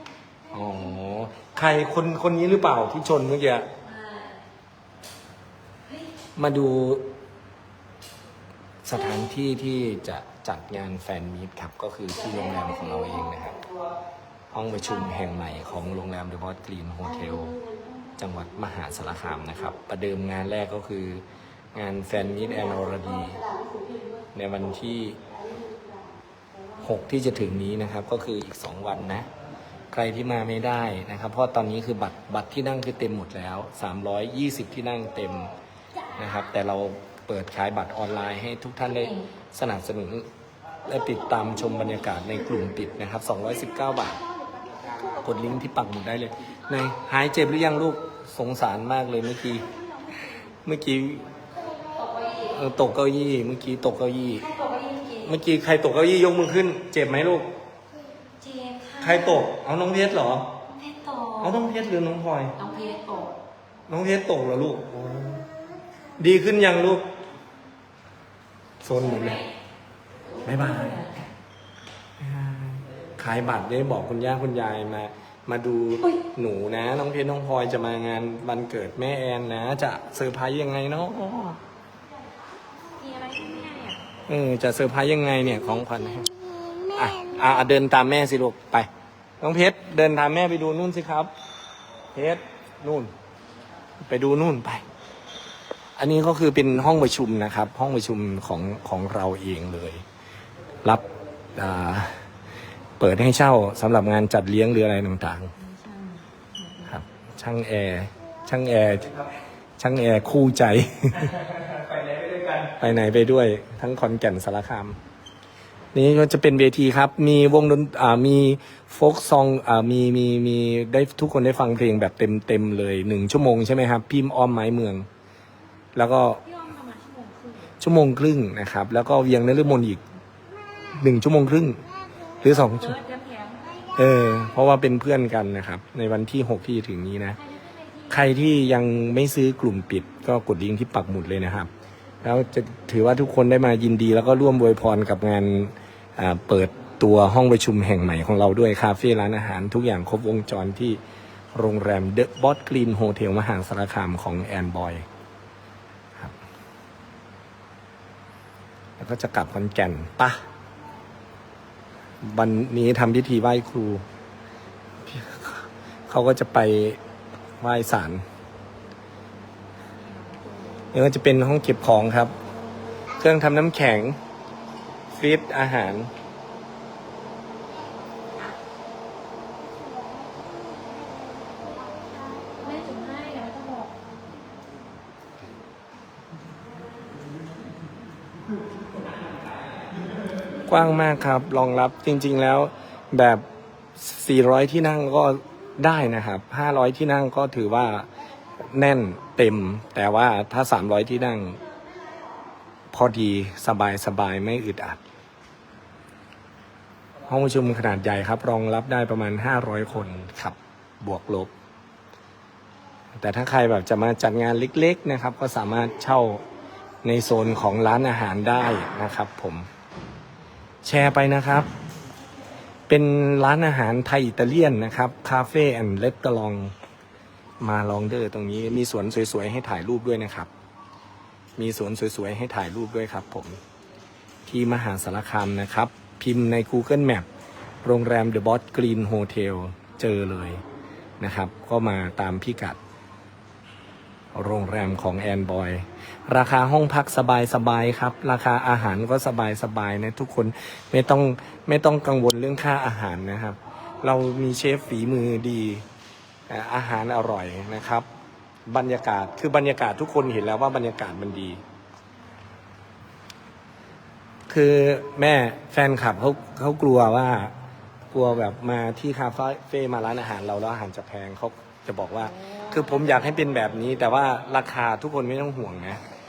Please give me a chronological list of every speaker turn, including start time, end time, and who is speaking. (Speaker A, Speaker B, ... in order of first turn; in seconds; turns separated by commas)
Speaker A: 0.5-3.7, Speaker B: 3.8-4.4, Speaker A: 6.4-7.0, Speaker A: 8.8-13.6, Speaker A: 14.5-17.6, Speaker A: 18.2-21.2, Speaker A: 21.7-23.4, Speaker A: 24.3-25.2, Speaker A: 26.8-29.3, Speaker A: 29.9-35.5, Speaker A: 36.1-40.3, Speaker A: 40.9-44.2, Speaker A: 45.2-49.7, Speaker A: 50.6-51.3, Speaker B: 51.9-52.6, Speaker A: 52.5-54.5, Speaker B: 54.4-55.3, Speaker A: 55.2-57.5, Speaker B: 58.4-59.5, Speaker A: 59.0-60.5, Speaker B: 60.7-61.6, Speaker A: 61.4-62.5, Speaker B: 62.6-63.3, Speaker A: 63.9-65.4, Speaker A: 66.2-67.0, Speaker A: 68.8-69.4, Speaker B: 69.0-69.4, Speaker B: 70.4-71.2, Speaker A: 70.4-71.0, Speaker A: 72.2-81.6, Speaker B: 83.0-84.0, Speaker A: 84.3-86.2, Speaker A: 86.9-88.9, Speaker A: 89.4-91.3, Speaker A: 92.1-93.1, Speaker A: 94.0-94.8, Speaker A: 96.0-100.0, Speaker A: 101.5-102.2, Speaker A: 103.0-105.5, Speaker B: 105.6-106.9, Speaker A: 106.9-109.2, Speaker A: 109.8-115.0, Speaker A: 115.9-125.1, Speaker A: 125.9-126.4, Speaker B: 126.4-127.7, Speaker A: 127.8-130.0, Speaker A: 130.9-131.8, Speaker A: 132.4-133.0, Speaker B: 132.5-133.7, Speaker A: 133.9-137.4, Speaker B: 137.5-138.2, Speaker A: 138.1-141.7, Speaker A: 142.2-151.0, Speaker A: 151.5-155.0, Speaker A: 159.0-160.4, Speaker A: 162.2-164.0, Speaker A: 165.0-167.0, Speaker A: 167.6-168.2, Speaker A: 170.9-172.3, Speaker A: 173.2-174.2, Speaker A: 175.1-176.1, Speaker B: 182.5-183.9, Speaker A: 190.7-193.4, Speaker A: 194.0-198.1, Speaker A: 198.6-201.6, Speaker A: 202.9-205.0, Speaker A: 207.3-211.5, Speaker A: 213.2-216.4, Speaker A: 217.0-219.7, Speaker A: 220.8-221.7, Speaker A: 222.9-226.7, Speaker A: 227.6-230.5, Speaker A: 231.6-233.6, Speaker A: 234.5-237.3, Speaker A: 237.8-240.6, Speaker A: 241.2-242.8, Speaker A: 244.3-255.8, Speaker A: 256.5-258.1, Speaker A: 258.7-261.6, Speaker A: 264.5-267.5, Speaker A: 268.1-276.0, Speaker B: 272.3-273.2